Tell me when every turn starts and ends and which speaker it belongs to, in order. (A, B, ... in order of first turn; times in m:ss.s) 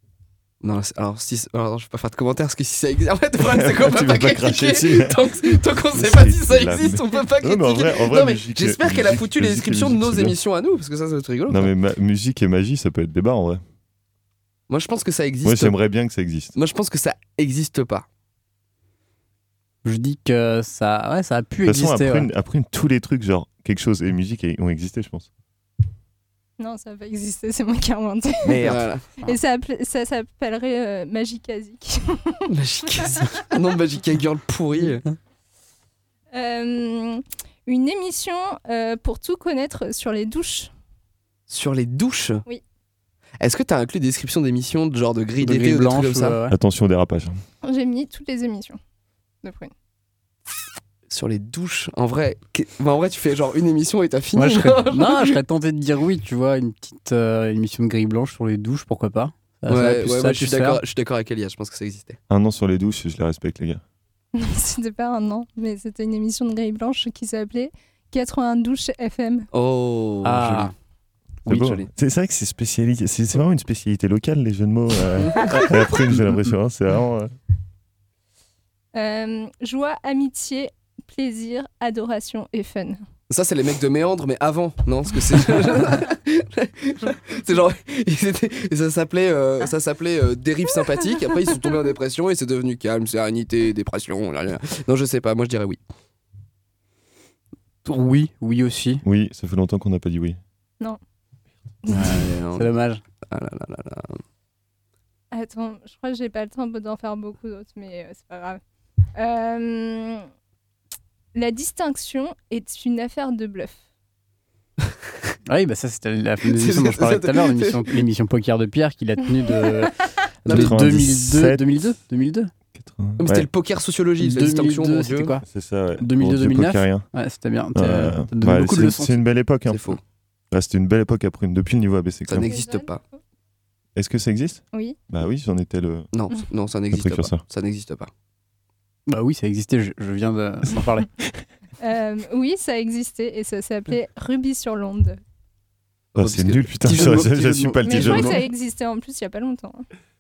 0:00.6-0:11.7 A
0:03.4-0:10.4 B
0:11.5-0:13.6 B
0:14.7-0:15.8 A
0:15.4-0:16.6 B
0:16.6-0:18.1 A
0:19.8-0:22.3 C
0:21.6-0:25.3 B
0:26.6-0:32.5 D
0:28.6-0:29.2 A
0:32.5-0:35.0 A
0:33.0-0:33.5 D
0:36.3-0:40.7 D
0:41.5-0:42.4 A
0:43.4-0:46.4 A
0:45.4-0:46.6 C
0:46.5-0:47.4 B
0:47.6-0:48.8 D
0:49.4-0:49.7 D
0:51.1-0:55.4 A
0:54.4-1:00.8 C
0:59.7-1:02.2 A
1:02.3-1:03.8 B
1:04.4-1:09.5 D
1:09.5-1:10.7 A
1:10.2-1:10.7 C
1:11.5-1:11.9 A
1:11.5-1:17.3 B
1:15.2-1:15.4 A
1:18.9-1:23.0 D
1:23.3-1:35.8 A
1:37.8-1:39.0 C
1:39.0-1:40.4 B
1:41.9-1:42.1 D
1:41.9-1:43.0 C
1:42.1-1:42.7 A
1:43.3-1:44.2 A
1:45.3-1:48.6 D
1:49.2-1:50.3 D
1:51.3-1:53.8 D
1:55.5-1:59.9 C
1:56.5-1:57.8 A
2:00.5-2:00.8 A
2:00.5-2:01.7 B
2:00.5-2:02.5 C
2:02.8-2:03.5 B
2:03.2-2:05.3 A
2:04.2-2:05.4 C
2:05.5-2:07.0 B
2:06.0-2:09.2 C
2:07.8-2:10.0 B
2:09.7-2:10.0 A
2:10.5-2:12.5 B
2:12.3-2:13.0 A
2:12.4-2:13.2 D
2:14.0-2:16.1 B
2:14.7-2:15.0 D
2:16.1-2:18.1 A
2:16.9-2:17.4 B
2:19.1-2:21.1 C
2:21.8-2:25.2 D
2:26.2-2:27.4 A
2:26.2-2:28.4 B
2:26.9-2:28.2 C
2:27.8-2:29.9 D
2:28.0-2:28.4 A